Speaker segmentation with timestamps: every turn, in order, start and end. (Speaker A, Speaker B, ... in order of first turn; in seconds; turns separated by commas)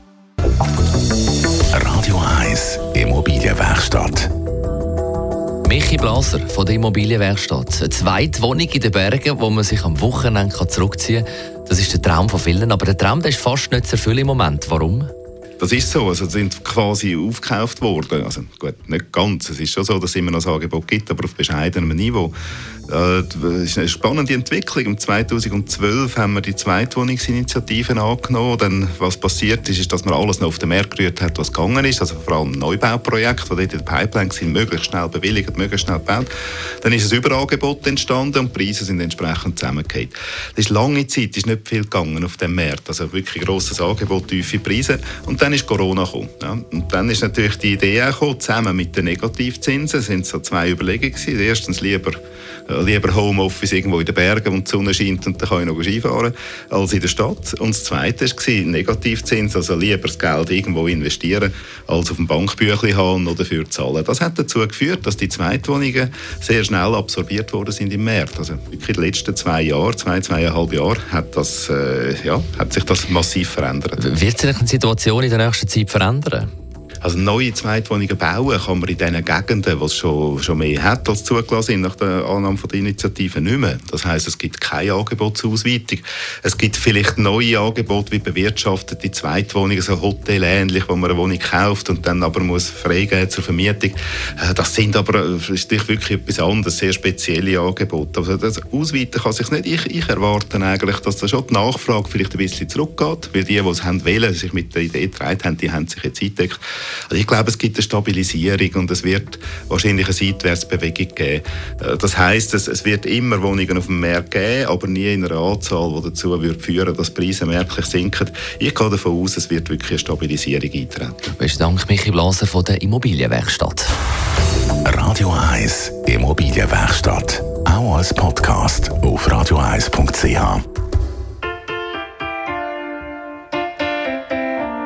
Speaker A: 1.7-4.3, Speaker B: 5.6-15.1, Speaker C: 15.6-22.3, Speaker C: 22.9-36.3, Speaker C: 36.8-74.0, Speaker B: 74.0-76.5, Speaker C: 77.0-121.3, Speaker B: 121.4-123.9, Speaker A: 124.8-130.6